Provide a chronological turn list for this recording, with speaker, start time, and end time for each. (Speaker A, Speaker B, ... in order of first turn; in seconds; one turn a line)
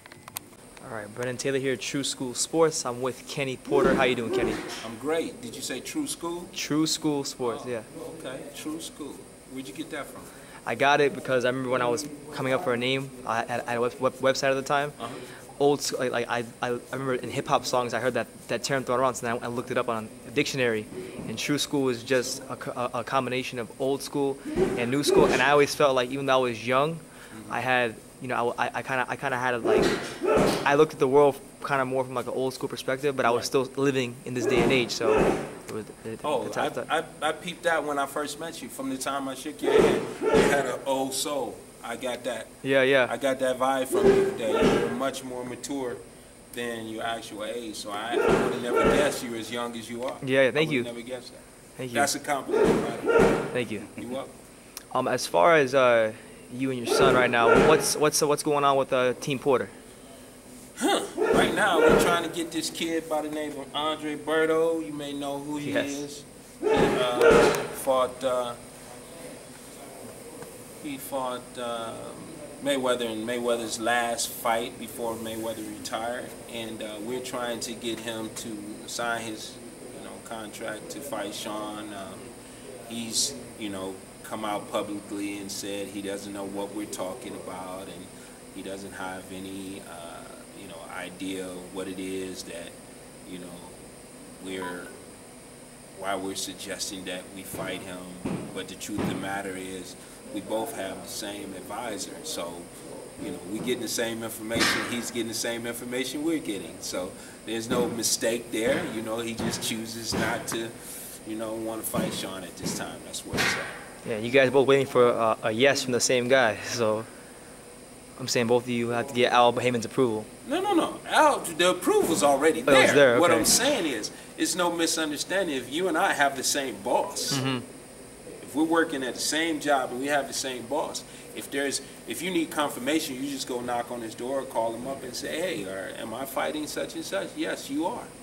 Speaker A: 0.8-4.6
Speaker B: 4.8-6.5
Speaker A: 6.5-7.9
Speaker B: 7.4-10.3
Speaker A: 10.7-15.0
Speaker B: 15.0-15.2
Speaker A: 15.6-29.9
Speaker B: 27.3-27.6
Speaker A: 30.6-36.9
Speaker B: 33.2-33.5
Speaker B: 36.2-42.5
Speaker A: 42.6-43.1
Speaker B: 43.1-51.4
Speaker A: 50.2-50.9
Speaker A: 51.8-52.1
Speaker B: 51.9-53.3
Speaker A: 53.5-53.9
Speaker B: 53.9-54.3
Speaker A: 54.9-59.7
Speaker B: 60.8-68.6
Speaker A: 65.6-66.0
Speaker B: 70.8-82.3
Speaker B: 82.8-93.8
Speaker B: 94.4-94.9
Speaker B: 95.9-113.8
Speaker A: 114.0-117.1
Speaker A: 118.2-120.3
Speaker B: 120.4-127.4
Speaker A: 122.7-123.5
Speaker A: 127.3-127.6
Speaker B: 128.4-138.1